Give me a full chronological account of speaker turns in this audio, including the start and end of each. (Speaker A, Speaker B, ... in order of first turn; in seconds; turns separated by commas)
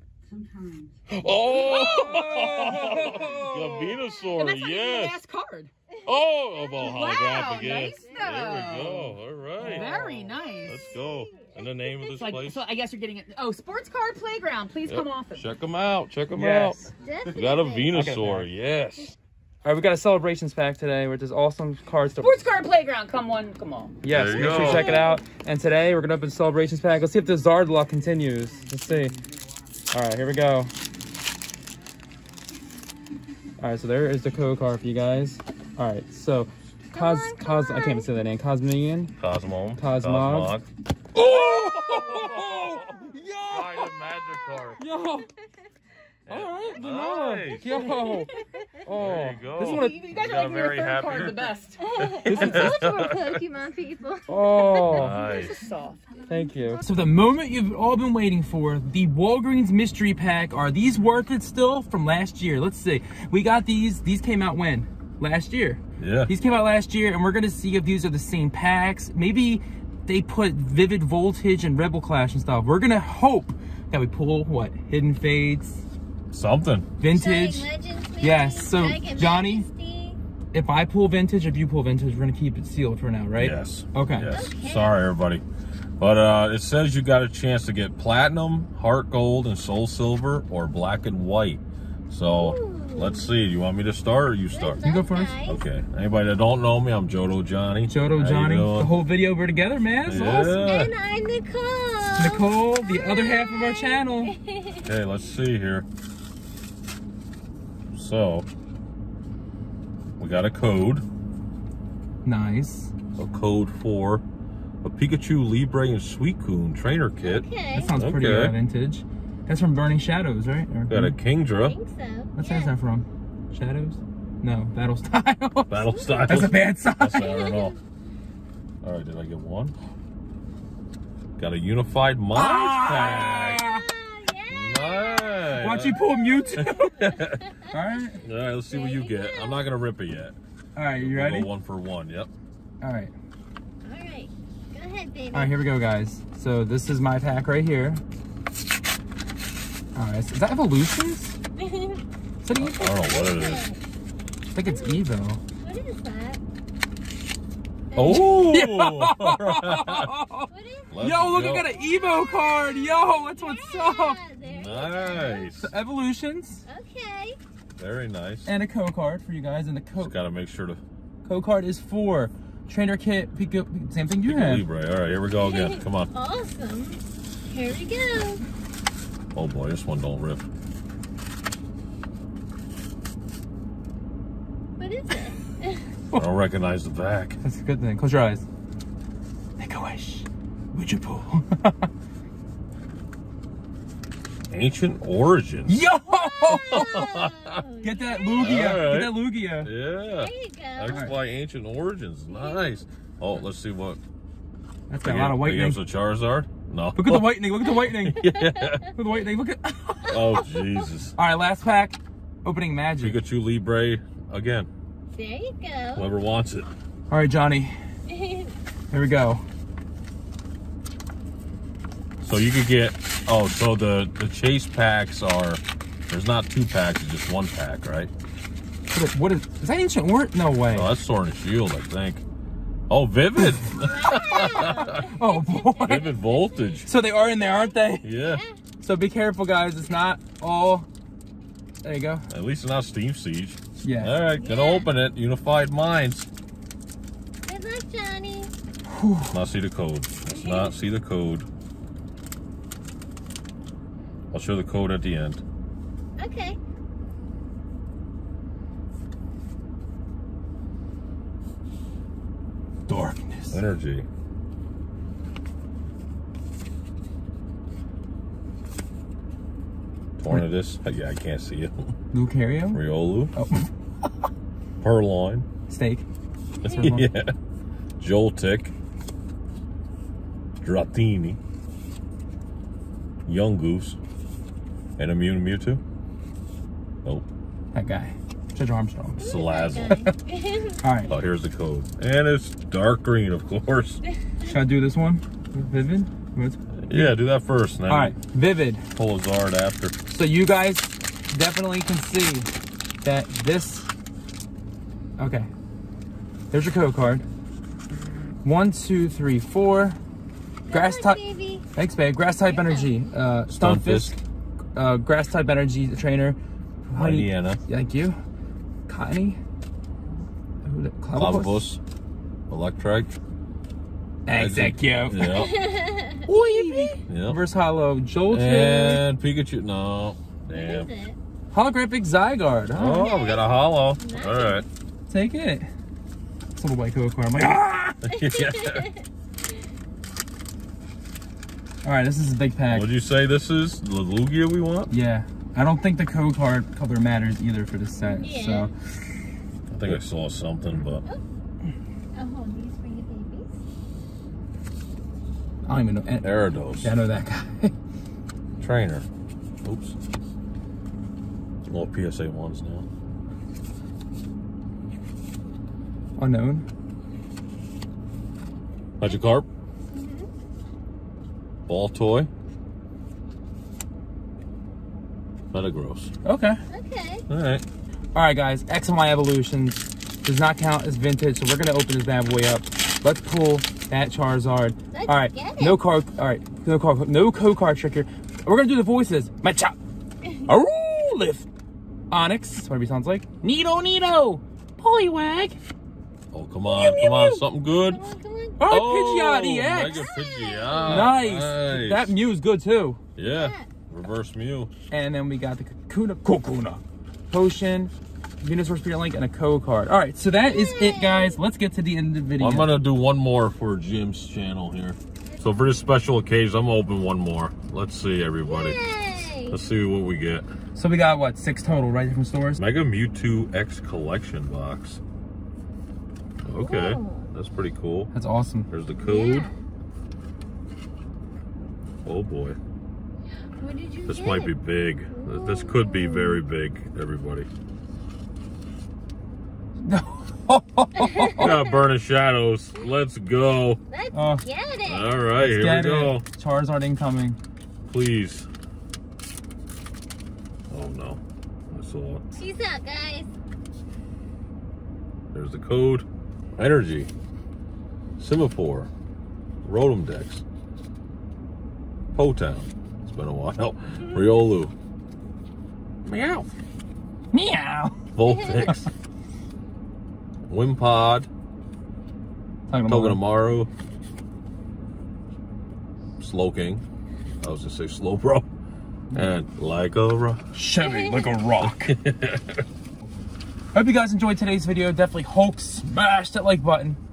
Speaker A: 0.4-0.9, Speaker B: 1.1-5.2, Speaker C: 1.5-3.7, Speaker A: 4.4-5.7, Speaker B: 6.0-12.7, Speaker D: 6.6-8.6, Speaker A: 6.8-10.9, Speaker C: 9.6-10.3, Speaker D: 10.3-11.6, Speaker A: 12.0-15.4, Speaker B: 14.8-16.8, Speaker C: 16.3-16.9, Speaker D: 17.0-17.9, Speaker B: 17.3-19.1, Speaker C: 17.9-18.4, Speaker C: 19.6-22.5, Speaker A: 22.2-23.9, Speaker C: 24.0-29.2, Speaker B: 24.1-25.1, Speaker D: 24.4-25.2, Speaker C: 29.9-30.7, Speaker C: 33.6-39.1, Speaker D: 36.9-38.1, Speaker B: 39.2-40.7, Speaker C: 39.8-40.6, Speaker C: 41.1-43.9, Speaker B: 41.2-43.0, Speaker B: 43.5-44.8, Speaker C: 44.8-45.3, Speaker B: 46.2-48.0, Speaker C: 46.3-50.3, Speaker D: 47.7-48.5, Speaker B: 48.9-53.4, Speaker A: 49.6-52.5, Speaker D: 51.8-54.9, Speaker C: 52.2-52.8, Speaker C: 54.3-55.2, Speaker A: 54.8-56.0, Speaker B: 54.9-55.6, Speaker C: 56.3-75.8, Speaker B: 66.0-66.3, Speaker B: 76.3-76.9, Speaker C: 77.0-79.7, Speaker D: 77.1-80.2, Speaker C: 80.5-84.3, Speaker B: 83.3-85.4, Speaker D: 84.3-85.0, Speaker B: 86.0-94.8, Speaker D: 92.4-93.3, Speaker D: 94.5-95.6, Speaker C: 94.8-95.4, Speaker B: 95.4-98.9, Speaker C: 97.9-100.6, Speaker B: 100.0-100.9, Speaker D: 100.1-104.9, Speaker C: 102.2-104.3, Speaker B: 104.8-105.8, Speaker B: 107.9-108.5, Speaker B: 110.2-111.0, Speaker C: 112.2-112.9, Speaker B: 113.2-114.2, Speaker B: 114.8-118.5, Speaker D: 117.2-117.9, Speaker C: 117.7-121.2, Speaker B: 120.9-121.7, Speaker D: 121.6-122.7, Speaker C: 122.3-127.3, Speaker B: 125.7-127.8, Speaker D: 125.9-126.5, Speaker D: 127.2-127.8, Speaker B: 128.8-129.7, Speaker B: 131.4-133.6, Speaker C: 132.3-133.8, Speaker D: 132.9-135.6, Speaker B: 134.5-136.0, Speaker C: 135.5-137.2, Speaker B: 136.5-137.4, Speaker C: 137.7-138.2, Speaker B: 138.2-140.3, Speaker D: 138.7-139.6, Speaker C: 140.8-141.5, Speaker B: 140.9-142.3, Speaker C: 142.8-143.1, Speaker D: 143.8-145.6, Speaker C: 145.3-148.0, Speaker C: 149.9-151.4, Speaker D: 151.6-152.0, Speaker C: 152.4-153.1, Speaker B: 152.5-153.6, Speaker D: 153.0-153.8, Speaker C: 154.5-155.4, Speaker D: 154.6-155.0, Speaker D: 155.6-156.4, Speaker D: 157.9-158.2, Speaker B: 157.9-160.1, Speaker C: 158.0-160.5, Speaker D: 160.5-160.9, Speaker B: 160.9-161.7, Speaker C: 161.0-164.2, Speaker D: 161.4-165.5, Speaker B: 164.4-165.7, Speaker C: 165.6-166.6, Speaker D: 166.7-167.4, Speaker B: 167.8-168.5, Speaker C: 168.4-170.1, Speaker B: 170.0-170.8, Speaker C: 171.2-174.6, Speaker B: 174.2-176.1, Speaker D: 175.4-178.4, Speaker B: 179.3-180.4, Speaker D: 184.8-185.8, Speaker B: 186.2-187.4, Speaker C: 187.4-188.4, Speaker C: 189.6-191.9, Speaker B: 194.5-195.8, Speaker C: 195.7-197.1, Speaker D: 196.3-198.6, Speaker B: 196.5-197.6, Speaker C: 197.8-199.7, Speaker B: 198.3-204.0, Speaker D: 200.2-201.0, Speaker C: 200.9-201.1, Speaker D: 202.3-202.7, Speaker C: 204.9-205.8, Speaker B: 205.0-208.9, Speaker C: 206.9-208.2, Speaker D: 208.2-208.9, Speaker C: 208.9-210.4, Speaker B: 210.1-211.2, Speaker C: 211.2-213.2, Speaker B: 213.0-214.7, Speaker D: 215.1-216.1, Speaker B: 215.9-216.7, Speaker C: 217.1-217.7, Speaker D: 218.1-218.5, Speaker C: 218.9-219.4, Speaker B: 222.2-228.1, Speaker C: 228.9-230.9, Speaker B: 230.7-232.2, Speaker B: 232.9-235.1, Speaker D: 233.8-238.6, Speaker C: 234.2-236.1, Speaker B: 235.8-236.9, Speaker C: 236.8-238.1, Speaker B: 238.0-238.4, Speaker C: 238.8-240.9, Speaker C: 241.8-242.2, Speaker B: 242.3-246.3, Speaker C: 243.8-244.1, Speaker D: 244.4-244.9, Speaker D: 247.5-248.5, Speaker C: 248.9-249.3, Speaker B: 249.3-251.5, Speaker D: 250.3-250.7, Speaker B: 254.3-255.4, Speaker D: 256.2-256.6, Speaker C: 262.9-263.6, Speaker B: 263.5-264.1, Speaker B: 270.2-271.9, Speaker C: 272.1-272.8, Speaker B: 272.7-273.3, Speaker C: 273.3-273.7, Speaker B: 274.8-275.4, Speaker C: 275.7-276.0, Speaker C: 276.6-277.1, Speaker B: 276.6-277.3, Speaker B: 278.0-278.7, Speaker B: 280.6-281.4, Speaker B: 283.3-284.0, Speaker B: 285.0-285.8, Speaker C: 287.7-289.2, Speaker D: 289.2-290.8, Speaker B: 289.2-290.0, Speaker C: 289.8-290.1, Speaker C: 290.8-291.1, Speaker B: 291.1-294.0, Speaker C: 294.4-297.1, Speaker B: 296.9-298.1, Speaker C: 297.9-298.8, Speaker B: 298.9-299.9, Speaker C: 300.1-302.5, Speaker C: 303.0-303.9, Speaker C: 305.2-305.5, Speaker C: 306.5-307.2, Speaker C: 308.4-310.0, Speaker D: 310.7-311.6, Speaker C: 310.7-311.2, Speaker C: 311.7-314.2, Speaker D: 312.5-312.9, Speaker B: 313.5-314.1, Speaker C: 314.8-318.2, Speaker B: 316.9-317.6, Speaker C: 318.9-319.4, Speaker C: 320.6-321.7, Speaker B: 321.1-321.8, Speaker B: 322.5-323.1, Speaker C: 324.2-325.4, Speaker B: 324.3-325.5, Speaker D: 325.2-327.0, Speaker C: 326.2-329.0, Speaker B: 327.1-327.4, Speaker B: 328.3-330.9, Speaker D: 330.5-331.2, Speaker C: 331.5-333.1, Speaker B: 332.7-334.6, Speaker D: 332.9-334.6, Speaker C: 335.1-335.7, Speaker C: 336.6-338.0, Speaker B: 338.0-338.9, Speaker D: 338.1-339.0, Speaker C: 341.8-342.9, Speaker B: 342.7-344.9, Speaker C: 344.9-348.9, Speaker D: 348.0-348.7, Speaker B: 349.7-351.0, Speaker D: 352.1-353.5, Speaker C: 355.6-357.7, Speaker B: 356.2-357.0, Speaker B: 358.6-359.1, Speaker B: 359.6-359.9, Speaker B: 361.7-362.9, Speaker C: 366.2-366.6, Speaker B: 369.0-369.4, Speaker D: 369.0-369.3, Speaker D: 369.9-370.3, Speaker B: 371.7-372.3, Speaker B: 375.5-376.1, Speaker C: 376.2-376.6, Speaker D: 376.7-377.2, Speaker B: 377.3-377.6, Speaker C: 378.1-389.8, Speaker D: 384.9-385.8, Speaker C: 390.4-391.5, Speaker C: 392.1-395.6, Speaker B: 396.3-398.1, Speaker C: 396.7-397.4, Speaker D: 397.9-398.6, Speaker C: 398.6-400.1, Speaker B: 398.7-402.1, Speaker D: 399.8-401.1, Speaker C: 400.9-403.0, Speaker B: 403.1-404.7, Speaker D: 403.3-403.7, Speaker C: 404.9-412.7, Speaker D: 410.4-411.4, Speaker B: 412.4-420.5, Speaker D: 418.4-419.6, Speaker C: 420.7-422.6, Speaker B: 422.6-425.0, Speaker B: 426.4-428.1, Speaker D: 426.6-427.3, Speaker C: 428.1-428.7, Speaker B: 428.7-429.5, Speaker D: 429.0-429.5, Speaker B: 432.0-432.6, Speaker D: 433.6-434.5, Speaker B: 434.1-437.5, Speaker D: 435.1-436.4, Speaker C: 439.8-441.5, Speaker D: 441.0-441.7, Speaker B: 441.3-443.8, Speaker D: 443.9-445.1, Speaker C: 444.1-444.4, Speaker B: 444.8-446.2, Speaker C: 445.4-447.4, Speaker B: 447.9-448.5, Speaker B: 450.7-451.2, Speaker B: 451.7-452.2, Speaker D: 452.4-453.3, Speaker B: 455.3-456.1, Speaker B: 456.6-457.1, Speaker B: 458.2-458.9, Speaker B: 459.6-460.4, Speaker B: 462.1-464.7, Speaker B: 466.0-466.5, Speaker C: 467.3-468.0, Speaker B: 468.1-468.9, Speaker D: 468.2-468.7, Speaker B: 470.5-471.3, Speaker C: 472.7-473.2, Speaker B: 472.9-473.7, Speaker B: 476.2-476.8, Speaker B: 477.4-478.5, Speaker B: 479.1-480.5, Speaker C: 480.5-482.0, Speaker D: 480.8-481.4, Speaker B: 481.6-482.6, Speaker C: 483.7-487.0